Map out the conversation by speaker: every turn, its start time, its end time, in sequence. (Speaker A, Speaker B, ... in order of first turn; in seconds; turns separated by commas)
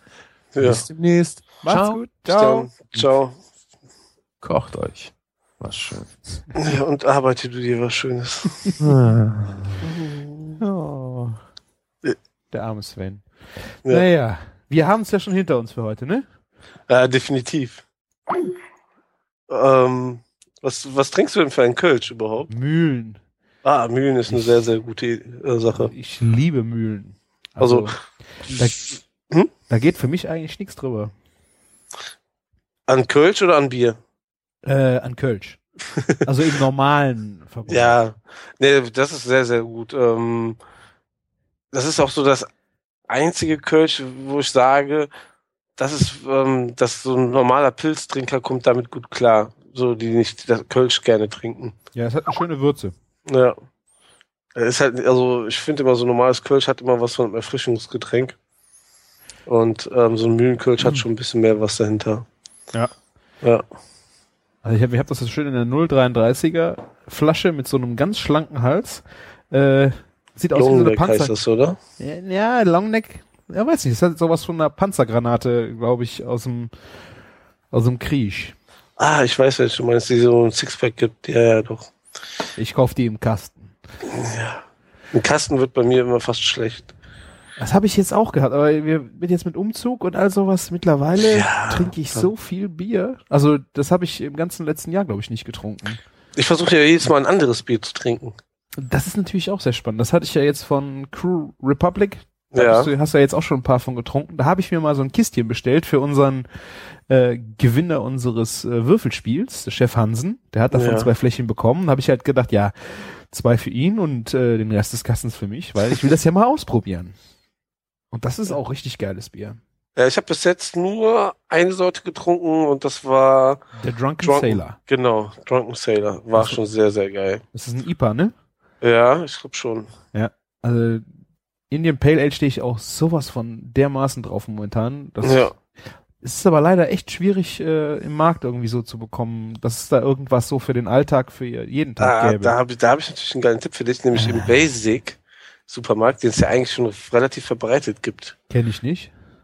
Speaker A: 0.6-0.8, Speaker B: 0.6-2.0, Speaker C: 1.6-3.0, Speaker A: 2.3-3.4, Speaker B: 4.4-6.1, Speaker A: 6.6-8.6, Speaker B: 8.8-9.8, Speaker A: 9.9-10.6, Speaker C: 10.6-11.4, Speaker C: 12.5-16.3, Speaker A: 16.9-17.8, Speaker A: 19.5-22.5, Speaker C: 22.5-23.2, Speaker A: 23.6-25.9, Speaker C: 25.7-28.9, Speaker A: 27.6-29.5, Speaker C: 29.7-31.1, Speaker A: 32.9-34.0, Speaker C: 34.6-35.6, Speaker C: 36.2-38.0, Speaker A: 37.7-40.6, Speaker A: 41.7-42.5, Speaker A: 43.1-45.1, Speaker A: 45.8-51.8, Speaker C: 51.9-52.9, Speaker A: 53.3-53.6, Speaker A: 54.5-58.4, Speaker A: 59.5-62.2, Speaker C: 64.6-71.3, Speaker A: 70.5-71.8, Speaker C: 72.0-76.7, Speaker C: 77.7-78.5, Speaker A: 79.0-81.9, Speaker C: 82.6-83.7, Speaker A: 84.1-86.9, Speaker C: 87.6-96.0, Speaker A: 91.2-92.3, Speaker A: 96.4-98.3, Speaker C: 98.8-117.1, Speaker A: 102.5-102.9, Speaker A: 110.7-111.1, Speaker C: 118.1-119.6, Speaker A: 120.0-123.7, Speaker C: 123.8-124.8, Speaker A: 124.2-127.4, Speaker C: 127.5-128.3, Speaker A: 128.8-129.9, Speaker C: 130.1-131.1, Speaker C: 131.7-135.5, Speaker A: 135.2-135.5, Speaker C: 136.2-142.5, Speaker A: 142.0-148.3, Speaker C: 144.1-144.5, Speaker C: 148.5-149.1